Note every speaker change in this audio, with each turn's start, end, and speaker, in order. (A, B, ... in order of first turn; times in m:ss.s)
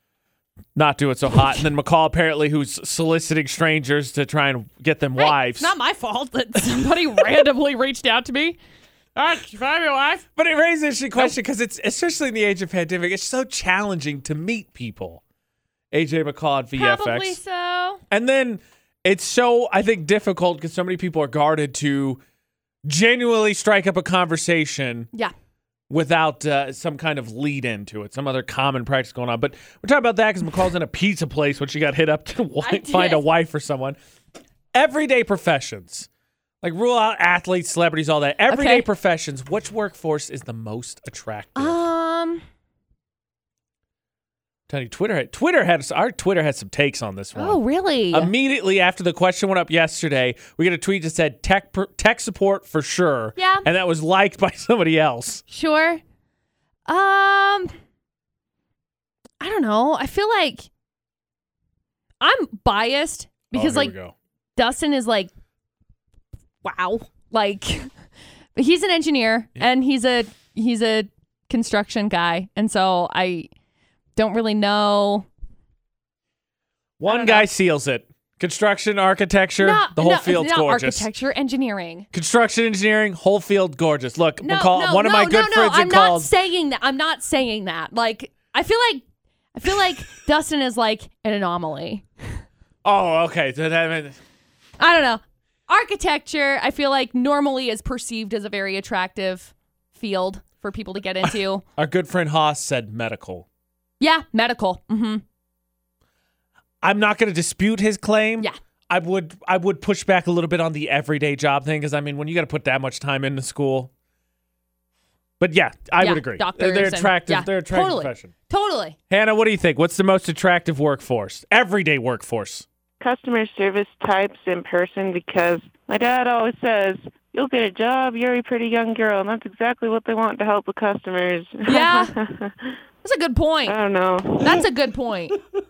0:00.7-0:05.7 A
0:05.2-0:08.6 B
0:09.2-0:10.2 B
0:10.2-0:15.2 A
0:15.9-0:17.4 A
0:16.8-0:18.0 B
0:18.1-0:22.2 A
0:22.8-0:25.1 A
0:25.9-0:34.0 A
0:32.6-0:33.2 B
0:34.7-0:36.1 A
0:36.6-0:41.8 A
0:38.5-0:38.8 B
0:41.6-0:42.4 B
0:44.7-0:47.6 A
0:47.4-0:48.3 B
0:48.1-0:55.4 A
0:53.4-0:53.7 B
0:55.5-0:56.0 B
0:56.9-0:57.7 B
0:59.4-1:00.7 B
1:02.2-1:03.9 B
1:03.5-1:04.1 A
1:04.6-1:05.3 B
1:06.6-1:07.9 B
1:08.6-1:13.5 B
1:14.2-1:15.3 B
1:17.0-1:21.1 A
1:17.0-1:17.4 B
1:19.6-1:22.1 B
1:22.1-1:26.3 A
1:24.4-1:29.0 B
1:29.5-1:32.4 B
1:32.8-1:34.2 A
1:34.8-1:41.6 B
1:41.8-1:43.4 A
1:44.0-1:45.2 B
1:46.8-1:53.9 A
1:55.4-1:58.3 A
1:56.0-1:59.0 B
1:59.1-2:02.7 A
2:03.0-2:12.8 C
2:11.6-2:12.1 B
2:13.0-2:13.8 B
2:13.6-2:14.6 C
2:14.4-2:15.4 B